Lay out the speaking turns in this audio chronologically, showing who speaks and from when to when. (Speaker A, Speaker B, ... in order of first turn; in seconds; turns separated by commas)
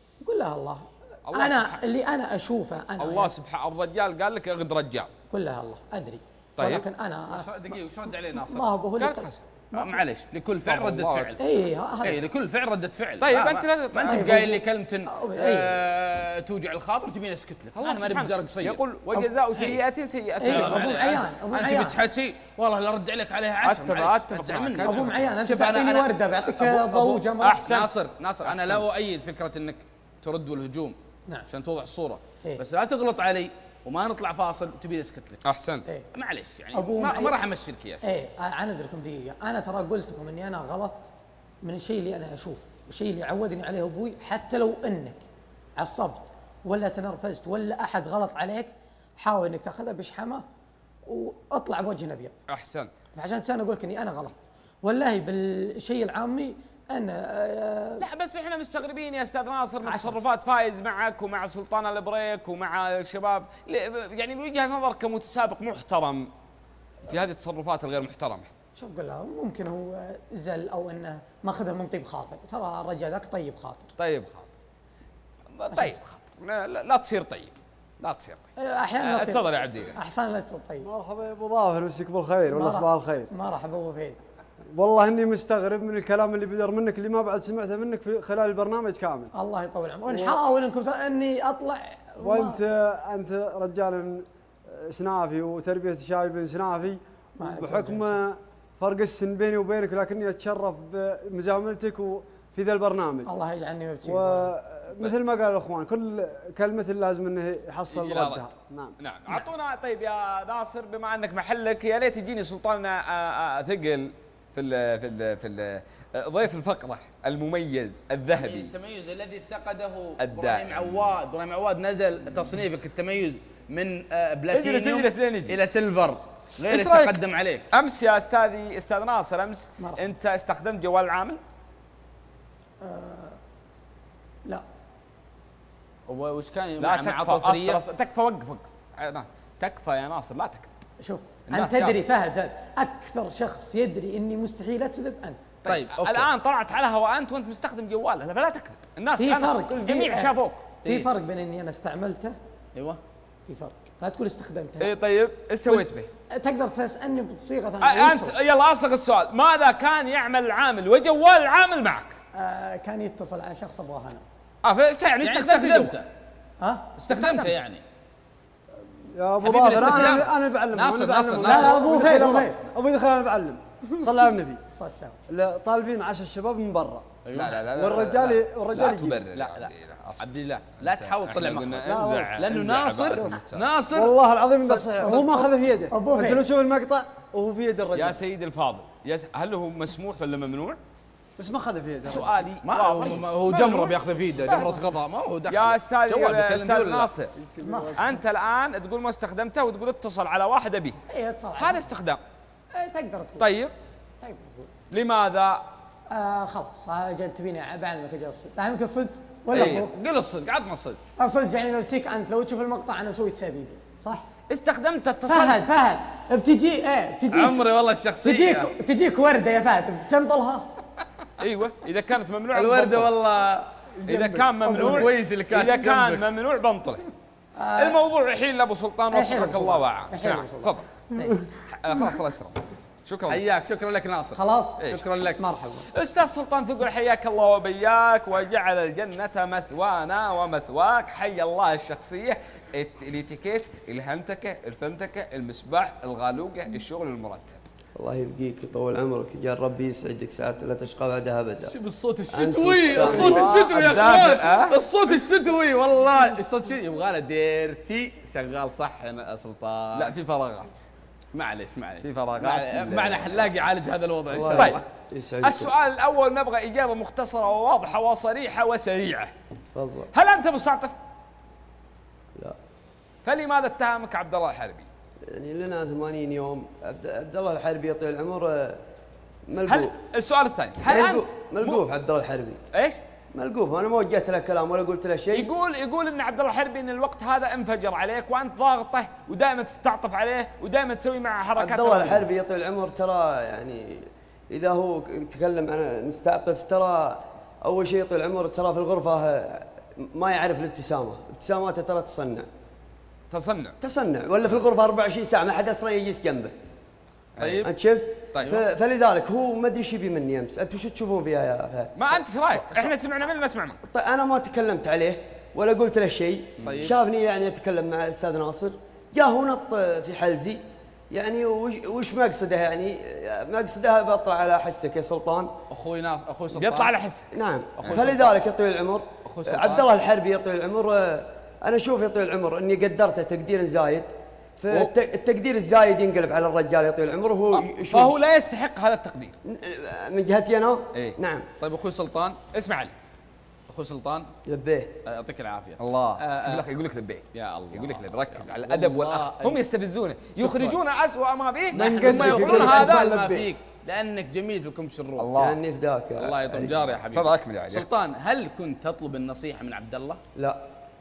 Speaker A: 0.2-3.3, Speaker B: 1.3-1.8, Speaker B: 3.0-5.1, Speaker A: 5.3-7.8, Speaker B: 6.6-6.9, Speaker C: 7.3-8.7, Speaker A: 8.3-10.0, Speaker B: 9.0-9.4, Speaker C: 9.7-11.4, Speaker B: 10.6-11.4, Speaker A: 11.4-12.2, Speaker C: 12.0-18.8, Speaker B: 13.2-14.3, Speaker A: 14.1-15.8, Speaker B: 17.8-21.1, Speaker C: 19.6-19.8, Speaker A: 20.4-22.0, Speaker C: 20.4-31.0, Speaker B: 23.6-25.3, Speaker A: 24.8-27.6, Speaker B: 27.4-27.9, Speaker B: 28.4-28.9, Speaker C: 31.5-35.4, Speaker B: 35.5-35.9, Speaker C: 36.1-38.1, Speaker A: 36.7-37.4, Speaker A: 38.0-41.1, Speaker A: 41.6-45.2, Speaker A: 45.8-50.5, Speaker A: 51.1-52.3, Speaker B: 52.5-52.9, Speaker A: 53.1-58.1, Speaker B: 58.0-66.3, Speaker A: 59.8-60.2, Speaker B: 67.1-68.5, Speaker A: 68.8-73.9, Speaker B: 74.0-74.5, Speaker B: 75.5-78.5, Speaker A: 75.7-76.0, Speaker A: 78.6-80.9, Speaker B: 79.0-80.0, Speaker D: 80.8-83.3, Speaker A: 82.5-84.2, Speaker D: 84.7-89.3, Speaker A: 89.3-92.6, Speaker D: 90.1-90.4, Speaker D: 92.2-103.3, Speaker A: 97.4-98.2, Speaker A: 103.3-104.5, Speaker D: 104.0-109.0, Speaker B: 107.9-118.7, Speaker C: 118.3-127.7, Speaker B: 120.2-121.1, Speaker B: 124.5-125.6, Speaker B: 126.7-127.2, Speaker B: 127.7-131.4, Speaker A: 129.8-130.0, Speaker A: 132.8-133.4, Speaker C: 136.1-137.8, Speaker B: 136.8-140.7, Speaker A: 141.0-145.5, Speaker B: 141.5-142.0, Speaker B: 145.6-150.7, Speaker C: 145.7-146.3, Speaker A: 149.2-152.4, Speaker C: 150.8-151.1, Speaker C: 152.8-153.0, Speaker A: 153.5-154.9, Speaker B: 154.8-156.1, Speaker A: 155.7-158.3, Speaker B: 157.8-162.2, Speaker A: 162.3-164.2, Speaker B: 164.6-165.9, Speaker C: 165.2-166.1, Speaker A: 166.6-167.5, Speaker C: 167.0-167.8, Speaker D: 169.2-174.6, Speaker C: 169.4-172.2, Speaker A: 171.4-172.6, Speaker A: 174.7-175.2, Speaker D: 175.3-177.1, Speaker C: 177.3-177.7, Speaker B: 177.3-180.3, Speaker D: 177.7-179.2, Speaker C: 178.8-184.2, Speaker B: 181.0-183.7, Speaker D: 181.9-182.4, Speaker D: 183.9-188.2, Speaker A: 184.9-186.4, Speaker B: 188.0-190.8, Speaker D: 191.4-192.5, Speaker B: 192.1-194.8, Speaker C: 192.6-197.1, Speaker B: 195.5-197.3, Speaker D: 197.4-198.1, Speaker A: 197.6-198.1, Speaker B: 197.9-201.0, Speaker A: 201.1-201.9, Speaker B: 201.6-202.2, Speaker A: 202.7-203.5, Speaker B: 203.4-203.7, Speaker A: 204.2-204.7, Speaker B: 204.9-205.6, Speaker A: 206.1-209.9, Speaker C: 209.5-211.0, Speaker B: 209.5-209.9, Speaker A: 211.2-214.3, Speaker B: 214.5-215.7, Speaker A: 215.3-217.7, Speaker C: 217.3-218.7, Speaker A: 218.2-220.7, Speaker B: 221.4-223.1, Speaker C: 222.5-223.7, Speaker D: 224.0-224.8, Speaker B: 224.1-227.0, Speaker C: 224.7-226.3, Speaker A: 227.6-228.0, Speaker B: 227.8-230.9, Speaker A: 229.1-231.4, Speaker B: 231.7-233.4, Speaker C: 233.3-235.4, Speaker A: 234.4-234.9, Speaker A: 235.4-235.9, Speaker B: 235.9-247.6, Speaker E: 248.0-251.7, Speaker C: 251.6-260.1, Speaker E: 252.3-253.5, Speaker B: 253.3-254.8, Speaker B: 259.9-260.7, Speaker C: 261.4-264.8, Speaker B: 262.0-263.5, Speaker E: 264.3-265.7, Speaker B: 264.5-264.8, Speaker B: 265.4-269.3, Speaker E: 269.8-270.1, Speaker B: 270.1-270.9, Speaker B: 273.2-274.9, Speaker E: 275.3-278.8, Speaker E: 279.5-279.9, Speaker B: 279.7-281.8, Speaker E: 280.8-282.6, Speaker B: 282.7-283.0, Speaker E: 283.4-285.5, Speaker B: 285.3-292.3, Speaker E: 291.6-302.5, Speaker B: 303.3-303.8, Speaker E: 303.8-306.6, Speaker B: 307.4-307.7, Speaker C: 307.4-307.7, Speaker E: 307.6-312.8, Speaker B: 312.0-313.8, Speaker E: 313.9-320.6, Speaker B: 316.6-316.9, Speaker C: 316.6-317.0, Speaker E: 321.1-325.5, Speaker C: 325.7-326.9, Speaker B: 326.6-327.3, Speaker E: 327.3-334.1, Speaker C: 327.8-328.4, Speaker C: 329.2-329.9, Speaker E: 334.6-338.2, Speaker B: 337.5-339.4, Speaker E: 339.4-341.4, Speaker C: 341.6-342.4, Speaker B: 342.5-342.9, Speaker C: 343.7-344.3, Speaker E: 344.5-344.9, Speaker C: 345.1-346.7, Speaker B: 345.8-353.1, Speaker C: 347.3-349.6, Speaker C: 350.4-350.8, Speaker C: 351.7-355.3, Speaker D: 351.8-353.5, Speaker B: 355.2-355.6, Speaker E: 355.4-356.9, Speaker C: 356.2-360.2, Speaker B: 357.1-357.9